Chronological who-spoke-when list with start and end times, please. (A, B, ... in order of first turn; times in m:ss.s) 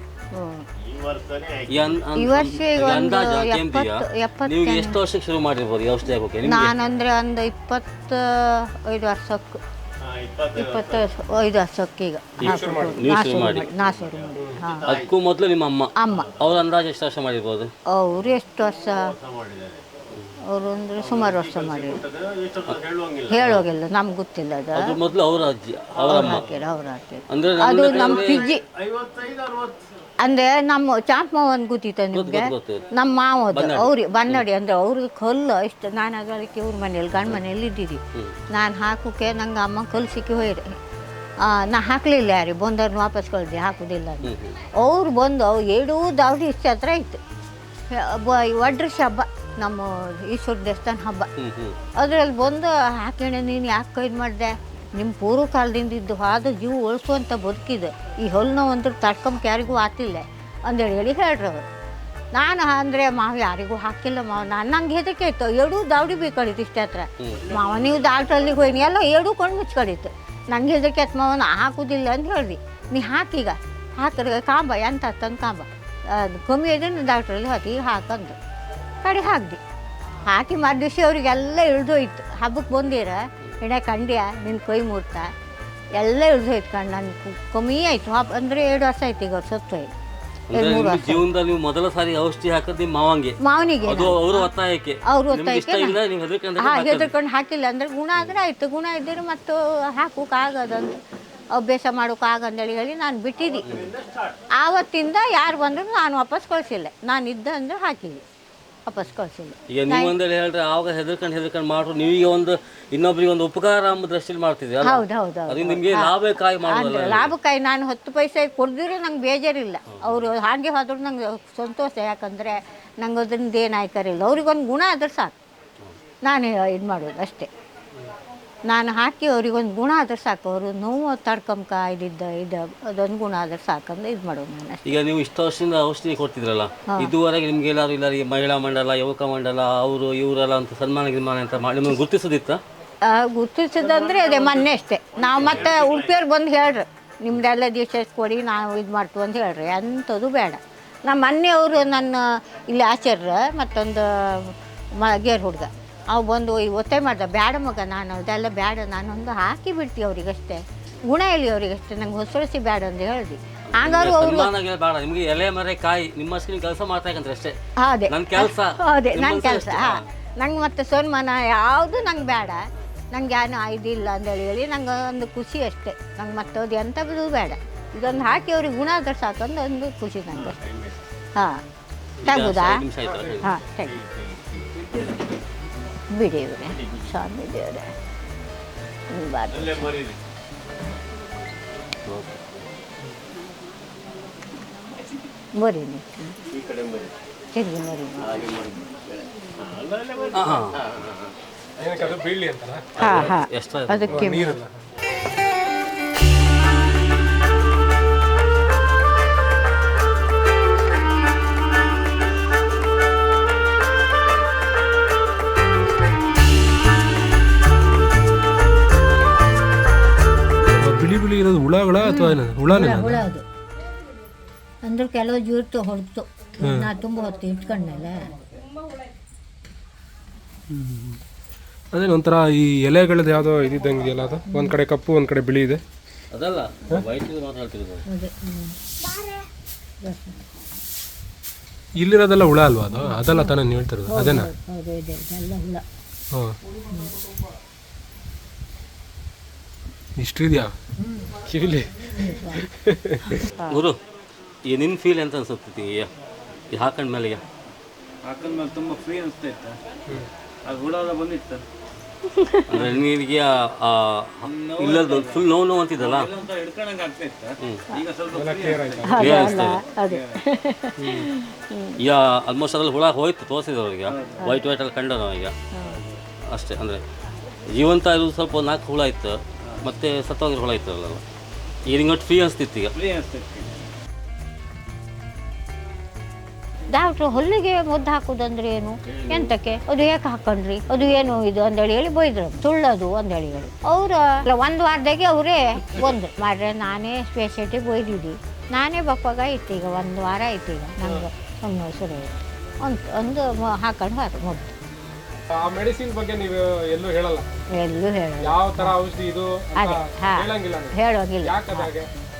0:00.3-0:00.6 A
0:00.8-0:02.0 B
0:01.7-0:06.7 C
0:02.1-0:05.0 A
0:06.4-0:09.6 A
0:10.0-0:11.0 B
0:10.6-0:14.9 A
0:12.4-0:13.7 C
0:12.4-0:13.1 D
0:13.6-0:15.1 B
0:14.9-0:17.7 C
0:16.0-0:16.3 A
0:16.1-0:16.6 B
0:17.9-0:19.1 A
0:18.9-0:19.9 B
0:20.5-0:22.0 A
0:21.0-0:23.5 B
0:23.3-0:25.0 A
0:24.8-0:26.4 C
0:26.0-0:28.6 A
0:26.1-0:26.6 B
0:27.3-0:28.4 C
0:27.8-0:29.8 B
0:30.2-0:38.0 A
0:32.1-0:32.8 C
0:33.5-0:34.4 C
0:38.5-0:40.7 A
0:41.4-0:47.2 A
0:44.2-0:44.6 C
0:47.9-0:51.3 A
0:51.4-0:51.8 C
0:51.9-1:01.6 A
1:02.3-1:18.4 A
1:19.0-1:19.6 A
1:20.2-1:25.3 A
1:26.0-1:29.9 A
1:30.5-1:37.1 C
1:30.5-1:31.2 A
1:33.4-1:34.5 A
1:35.0-1:36.0 A
1:36.6-1:40.9 A
1:41.5-1:43.7 A
1:43.4-1:44.4 B
1:44.6-1:48.2 A
1:48.8-1:50.1 A
1:49.7-1:57.3 C
1:54.8-2:05.3 A
1:59.9-2:00.3 C
2:06.2-2:07.5 A
2:08.7-2:14.9 A
2:14.8-2:22.6 C
2:23.0-2:44.5 A
2:23.9-2:26.2 B
2:25.4-2:25.7 C
2:43.7-2:47.6 C
2:47.8-3:00.6 A
2:48.1-2:50.0 C
3:00.3-3:01.0 B
3:01.4-3:01.6 A
3:02.2-3:03.5 C
3:02.2-3:02.8 A
3:03.2-3:05.2 B
3:03.4-3:04.0 A
3:06.1-3:07.9 A
3:06.6-3:07.1 B
3:09.1-3:09.9 A
3:09.5-3:10.2 B
3:12.0-3:12.6 C
3:15.6-3:16.4 A
3:16.5-3:17.1 B
3:17.5-3:18.4 A
3:18.2-3:21.3 B
3:20.3-3:20.8 C
3:21.8-3:22.9 D
3:23.0-3:24.3 C
3:23.0-3:24.6 A
3:24.1-3:24.8 D
3:40.8-3:43.2 D
3:42.0-3:43.4 A
3:44.8-3:48.3 A
3:46.6-3:46.9 D
3:50.7-3:51.2 D
3:51.9-3:55.8 D
3:54.5-3:54.8 A
3:56.3-3:58.0 C
3:58.1-3:59.4 A
4:00.0-4:00.4 A
4:02.0-4:04.5 D
4:02.9-4:05.8 A
4:10.2-4:10.7 D
4:11.0-4:11.3 A
4:11.4-4:12.0 D
4:12.1-4:12.6 A
4:12.5-4:13.4 D
4:13.4-4:13.8 A
4:13.7-4:14.0 C
4:14.6-4:16.1 C
4:16.7-4:17.4 C
4:18.2-4:19.8 E
4:20.6-4:21.6 E
4:22.2-4:22.8 A
4:22.7-4:26.4 C
4:24.4-4:30.4 E
4:27.6-4:27.9 C
4:28.3-4:29.3 D
4:29.0-4:32.0 A
4:29.1-4:29.8 C
4:31.0-4:31.3 D
4:32.0-4:35.5 C
4:34.1-4:34.5 E
4:35.7-4:36.0 A
4:35.9-4:36.2 E
4:36.5-4:37.0 C
4:37.7-4:41.2 C
4:41.8-4:42.9 C
4:42.9-4:43.8 E
4:46.9-5:04.7 A
5:05.5-5:07.5 D
5:07.7-5:08.9 A
5:08.4-5:12.1 D
5:09.8-5:11.9 A